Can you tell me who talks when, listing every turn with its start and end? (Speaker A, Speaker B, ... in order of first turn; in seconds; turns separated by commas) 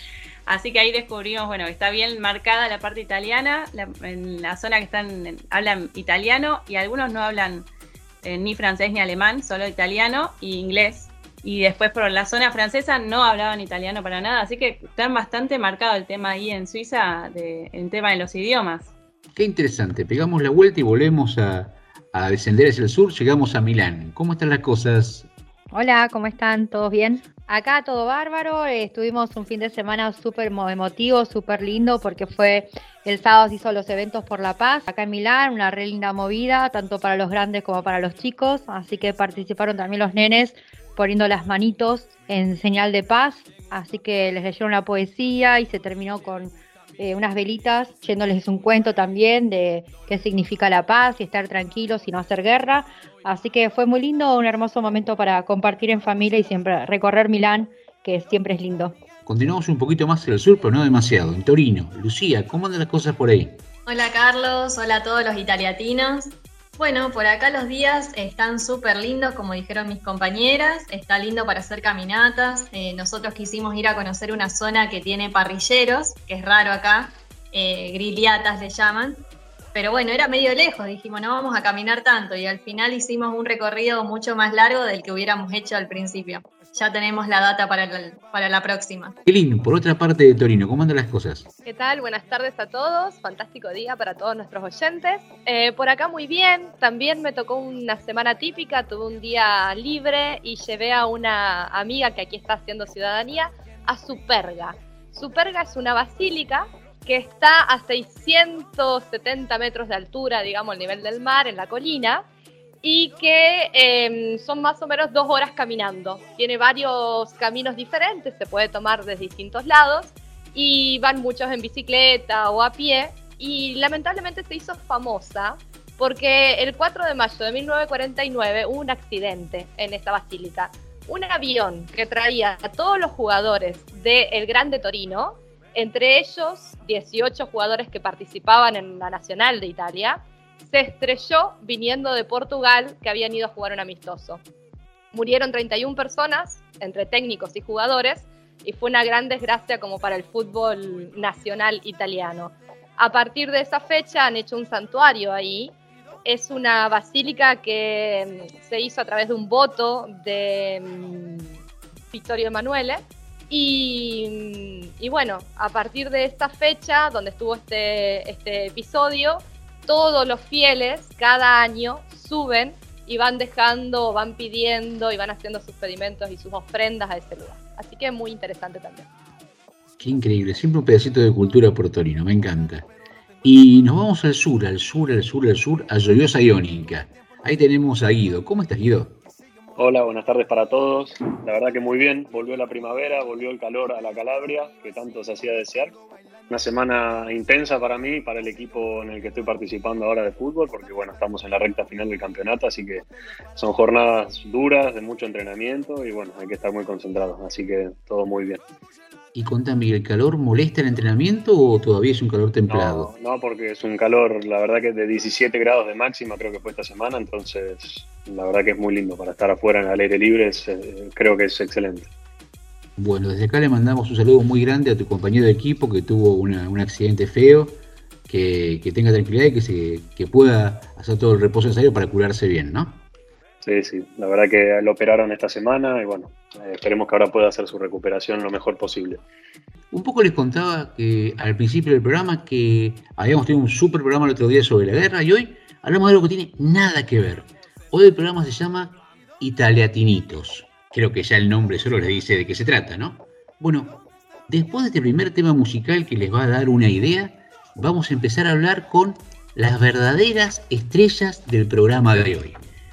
Speaker A: 0.5-7.6, Speaker A: 8.2-18.9, Speaker B: 19.3-25.3, Speaker C: 25.7-58.9, Speaker B: 59.2-63.6, Speaker D: 63.9-79.2, Speaker D: 79.7-89.1, Speaker B: 89.2-91.5, Speaker E: 91.6-112.2, Speaker E: 112.8-144.4, Speaker E: 145.1-155.7, Speaker E: 156.2-161.6, Speaker E: 162.1-179.1, Speaker B: 180.0-182.8, Speaker B: 183.4-189.1, Speaker F: 189.7-195.9, Speaker F: 196.5-203.0, Speaker F: 203.6-208.6, Speaker B: 209.3-213.1, Speaker F: 212.7-222.1, Speaker B: 223.0-227.8, Speaker B: 228.3-233.0, Speaker F: 233.6-239.2, Speaker B: 239.9-253.9, Speaker B: 254.5-262.6